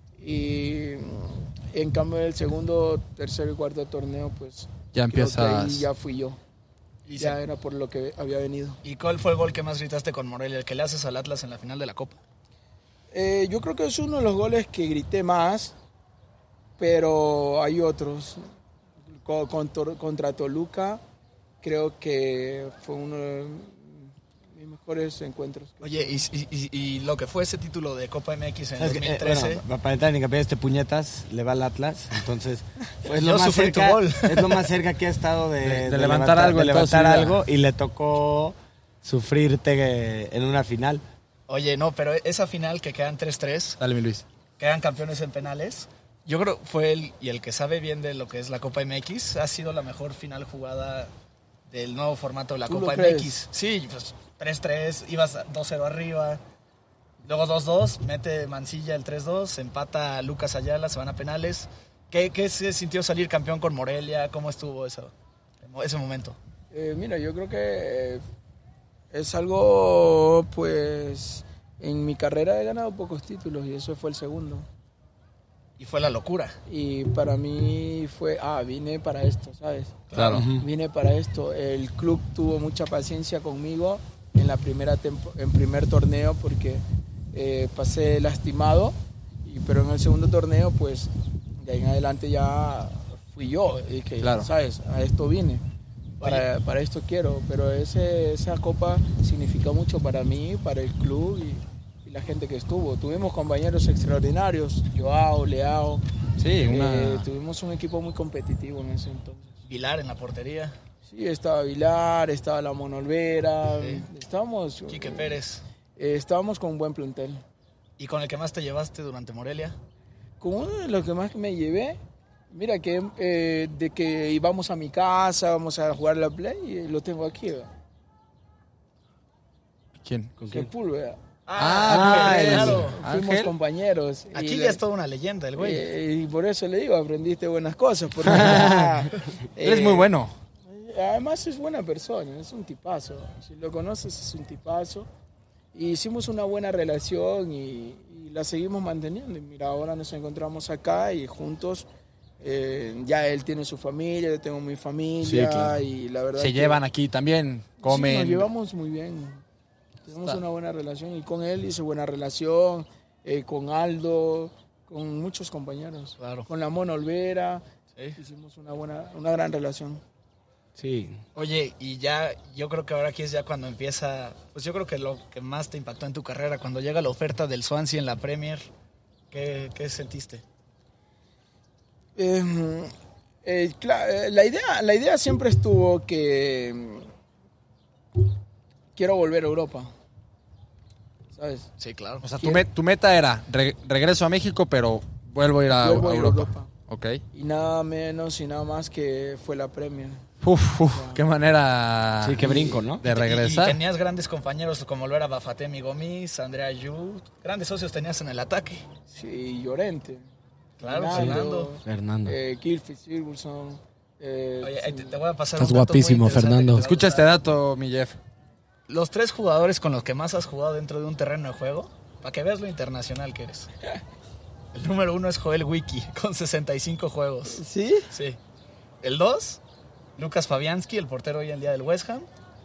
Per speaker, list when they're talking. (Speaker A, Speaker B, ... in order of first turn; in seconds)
Speaker A: 0.2-6.4, 7.2-8.8, 13.1-15.7, 16.8-18.4, 19.1-21.0, 21.6-26.2, 52.6-53.4, 66.7-68.2, 69.1-74.7, 76.7-95.6, 96.2-106.0, 106.6-109.5, 111.1-115.4, 116.0-117.4, 120.4-122.0, 122.5-127.7, 130.5-131.2, 132.1-134.8, 135.6-140.1, 140.7-145.1, 145.7-151.8, 152.4-156.8, 157.8-159.4, 160.1-167.6, 168.2-170.0, 182.2-182.9, 183.4-187.1, 188.9-189.9, 191.3-191.7, 192.4-192.6, 195.7-196.7, 197.3-200.2, 200.9-201.2, 202.4-202.8, 209.1-210.2, 210.8-215.2, 227.5-228.1
Speaker B: 4.9-5.9, 35.6-37.4, 43.8-44.2, 80.1-80.5, 94.2-94.5, 106.4-107.3, 130.0-130.3, 131.6-133.5, 138.2-138.6, 139.6-140.3, 156.4-158.5, 160.1-160.4, 192.2-197.2, 200.4-203.8, 216.7-218.2
Speaker C: 7.0-7.4, 8.8-12.2, 25.8-29.6, 33.1-34.7, 41.5-43.8, 44.6-51.1, 51.7-56.4, 57.2-66.4, 75.8-76.5, 80.1-80.5, 96.2-96.5, 109.7-110.8, 113.7-114.0, 114.9-115.6, 118.0-119.8, 131.5-133.0, 134.3-135.8, 166.2-166.5, 171.3-178.7, 179.3-180.4, 191.8-192.2, 203.0-208.8, 210.8-211.8, 214.6-217.3, 218.9-223.7, 224.7-228.4, 229.0-229.6, 230.2-232.3
Speaker D: 28.8-41.0, 80.3-80.7, 130.4-130.7, 131.9-132.8, 138.2-139.0, 155.2-155.8, 170.8-171.2, 202.2-203.0, 211.1-212.4, 215.6-216.8